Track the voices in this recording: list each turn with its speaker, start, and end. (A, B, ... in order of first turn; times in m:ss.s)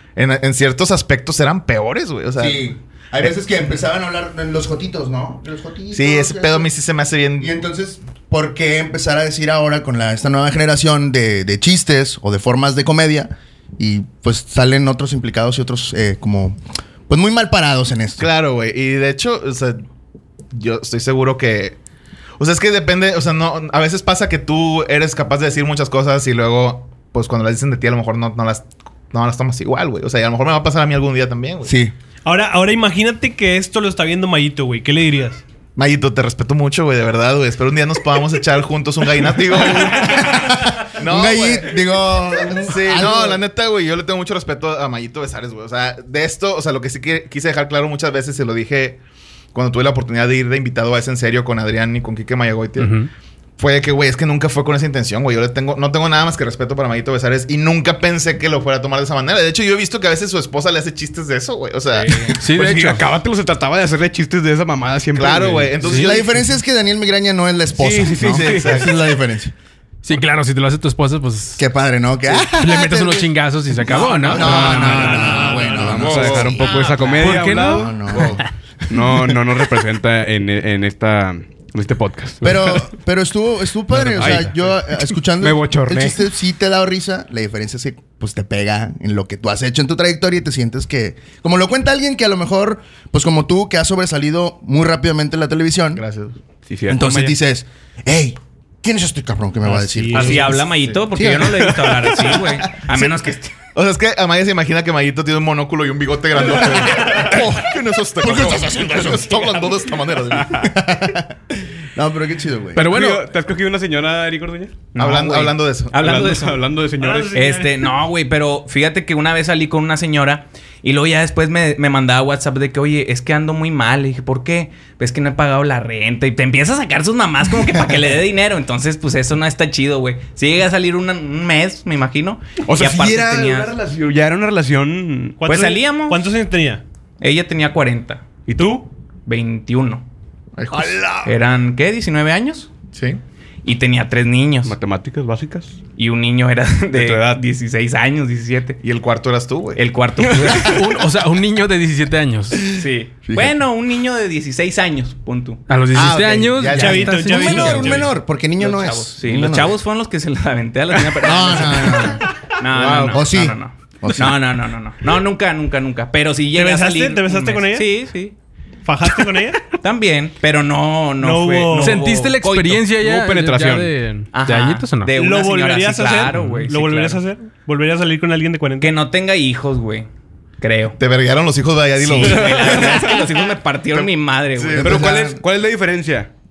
0:00.2-0:02.7 A
0:02.4-0:06.7 B
0:05.9-0:07.6 A
0:07.4-0:18.3 B
0:18.2-0:19.8 A
0:20.5-0:21.8 A
0:22.4-0:31.7 A
0:31.6-0:31.9 B
0:32.2-0:35.4 C
0:35.8-0:49.0 A
0:39.7-0:43.4 B
0:49.5-0:52.9 A
0:52.8-0:53.1 D
0:53.6-1:02.3 A
1:01.9-1:02.3 E
1:02.4-1:05.8 F
1:02.4-1:03.0 D
1:05.2-1:06.4 A
1:05.8-1:06.1 D
1:05.8-1:09.5 B
1:07.8-1:08.9 F
1:08.2-1:08.9 A
1:10.0-1:11.6 D
1:11.6-1:17.0 B
1:12.5-1:15.3 D
1:14.3-1:15.1 A
1:14.4-1:16.0 C
1:14.5-1:14.9 F
1:15.7-1:16.6 A
1:15.8-1:18.2 F
1:17.2-1:17.9 D
1:17.7-1:18.4 B
1:18.1-1:18.4 A
1:18.9-1:22.9 F
1:19.1-1:19.4 B
1:22.4-1:36.0 B
1:23.9-1:24.5 D
1:24.1-1:24.6 F
1:25.4-1:26.2 F
1:36.0-1:36.4 A
1:36.7-1:37.4 F
1:36.9-1:42.4 B
1:39.6-1:40.6 C
1:40.1-1:43.5 E
1:43.8-1:50.7 A
1:48.2-1:49.4 B
1:50.4-1:50.7 F
1:50.6-1:51.4 B
1:51.9-1:52.9 B
1:52.8-1:53.3 D
1:52.8-1:55.0 F
1:55.0-1:56.6 E
1:55.0-1:56.3 A
1:56.0-1:57.4 F
1:57.0-1:57.9 C
1:57.3-2:13.8 E
2:12.6-2:15.4 F
2:15.4-2:16.8 C
2:15.5-2:16.2 E
2:17.2-2:18.3 E
2:18.5-2:18.8 F
2:19.3-2:20.0 E
2:20.6-2:21.1 A
2:20.7-2:21.3 B
2:21.2-2:22.7 E
2:22.9-2:23.2 A
2:23.6-2:24.7 E
2:24.6-2:25.8 F
2:26.0-2:28.8 E
2:26.9-2:27.4 F
2:28.8-2:29.8 A
2:29.8-2:30.8 E
2:30.2-2:30.8 F
2:30.6-2:32.6 D
2:32.5-2:33.6 B
2:32.7-2:35.6 E
2:35.7-2:38.0 D
2:35.9-2:37.5 A
2:36.7-2:38.1 C
2:37.3-2:39.8 B
2:38.6-2:48.4 E
2:41.1-2:44.4 B
2:46.5-2:47.9 C
2:48.8-2:49.6 C
2:49.7-2:52.8 E
2:51.2-2:52.1 C
2:51.8-2:55.1 D
2:53.0-2:53.9 F
2:54.3-2:57.2 E
2:55.2-2:59.0 C
2:56.3-2:56.6 D
2:58.8-3:00.1 E
3:00.6-3:01.0 E
3:01.0-3:03.4 A
3:02.0-3:04.9 E
3:02.2-3:03.1 F
3:03.9-3:05.1 A
3:04.7-3:05.4 B
3:04.8-3:06.3 F